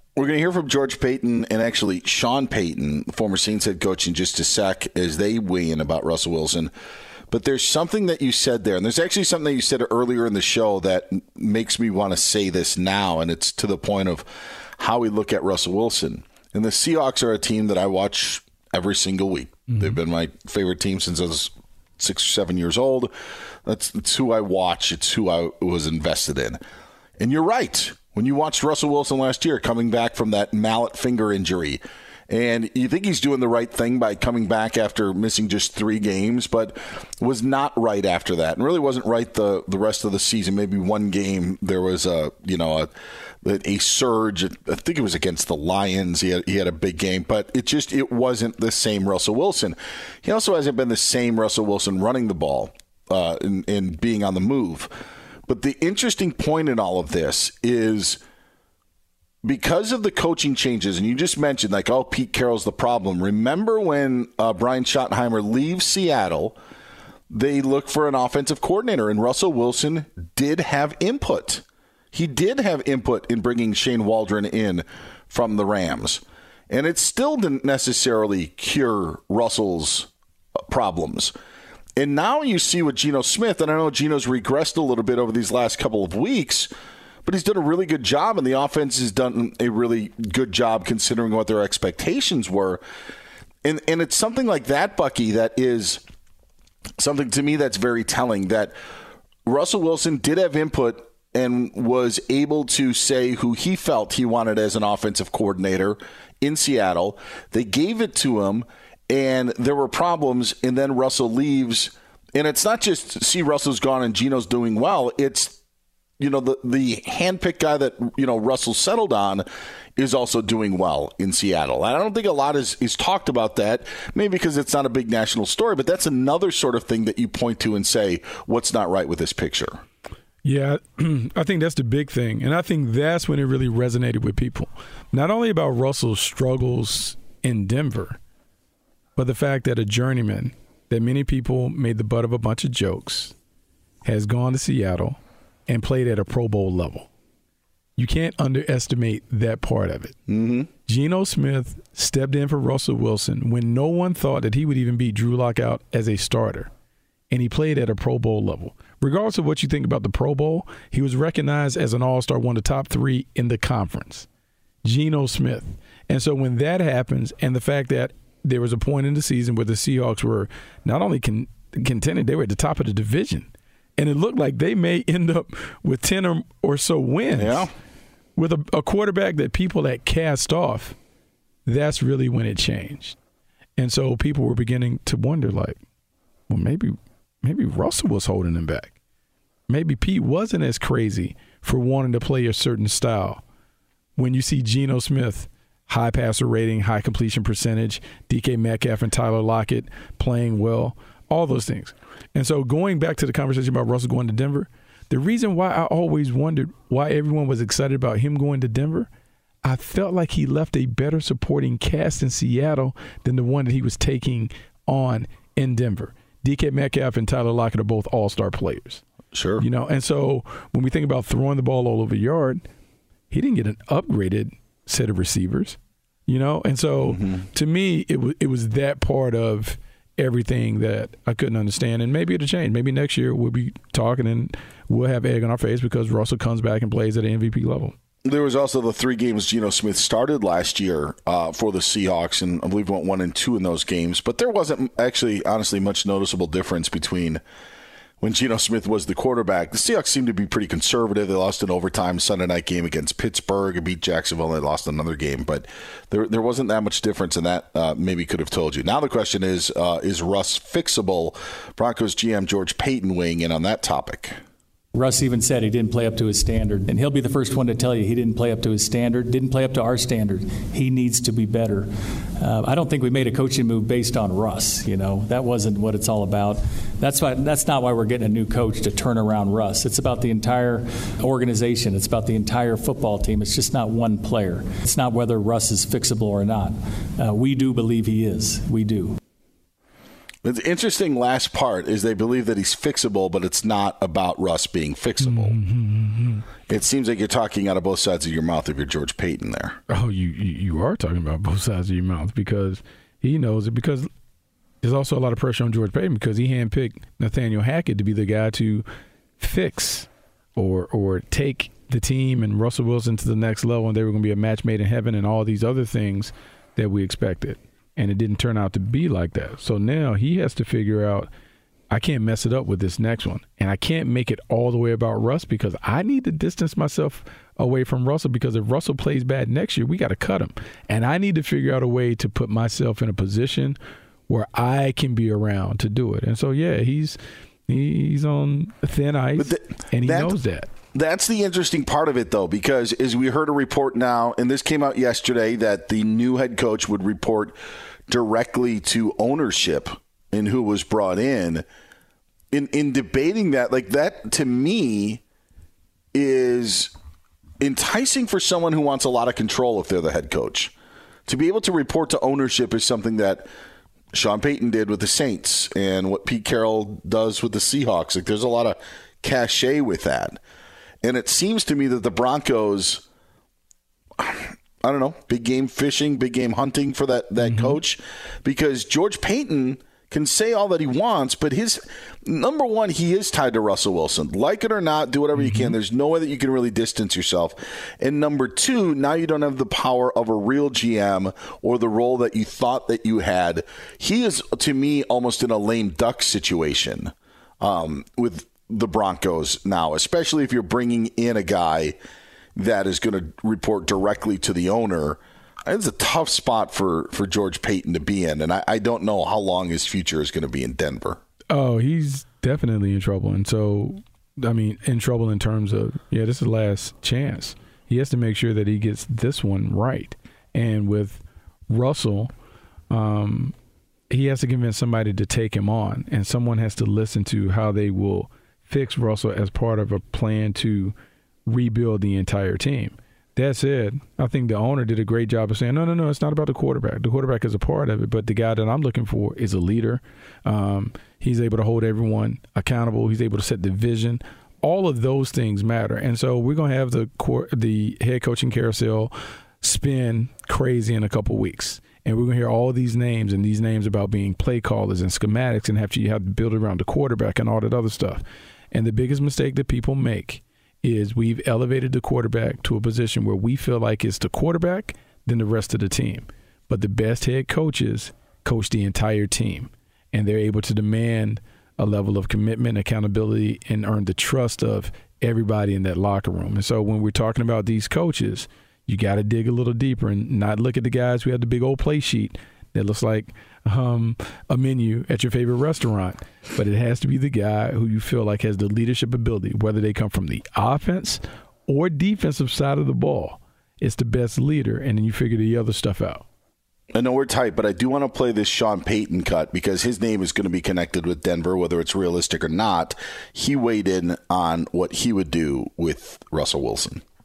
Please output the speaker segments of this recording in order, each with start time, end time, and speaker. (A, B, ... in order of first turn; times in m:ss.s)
0:00.2-0:06.7 A
0:07.3-0:14.3 A
0:14.8-0:23.1 A
0:19.7-0:20.0 B
0:23.6-0:26.6 A
0:27.2-0:42.9 A
0:43.4-0:54.9 A
0:55.5-0:58.2 A
0:59.4-1:06.6 A
1:07.3-1:21.3 A
1:22.0-1:26.7 A
1:27.2-1:32.8 A
1:33.6-1:36.0 A
1:37.0-1:38.7 A
1:39.4-1:55.6 A
1:56.2-1:59.4 A
2:00.0-2:09.8 A
2:10.4-2:18.2 B
2:19.2-2:23.3 B
2:24.0-2:27.1 B
2:28.0-2:30.2 B
2:30.3-2:30.7 A
2:30.9-2:36.7 B
2:37.3-2:44.3 B
2:44.8-2:57.7 B
2:57.4-2:57.7 A
2:58.4-3:01.0 B
3:01.7-3:03.2 B
3:03.8-3:05.8 B
3:06.5-3:08.9 B
3:09.7-3:13.4 B
3:14.2-3:29.1 B
3:29.6-3:39.0 B
3:39.3-3:39.6 A
3:39.6-3:42.6 B
3:43.3-3:57.9 B
3:47.0-3:47.4 A
3:58.2-4:07.4 A
4:08.2-4:24.4 A
4:24.9-4:31.9 C
4:32.4-4:49.2 C
4:50.4-4:55.5 A
4:55.2-4:56.4 B
4:56.7-4:59.8 A
4:59.9-5:04.1 B
5:04.8-5:08.8 B
5:09.4-5:21.3 B
5:21.9-5:33.8 B
5:34.3-5:40.7 B
5:39.4-5:40.4 A
5:40.9-5:47.6 A
5:48.1-5:51.6 A
5:52.5-5:55.2 A
5:56.1-5:56.9 A
5:57.6-6:00.7 A
6:01.3-6:03.5 A
6:04.1-6:10.4 A
6:11.0-6:13.0 A
6:14.2-6:42.0 A
6:17.4-6:17.8 B
6:25.4-6:25.8 B
6:42.6-6:51.2 A
6:51.5-7:02.3 B
7:02.9-7:03.5 B
7:04.1-7:10.9 B
7:11.5-8:16.2 B
8:16.9-8:27.0 A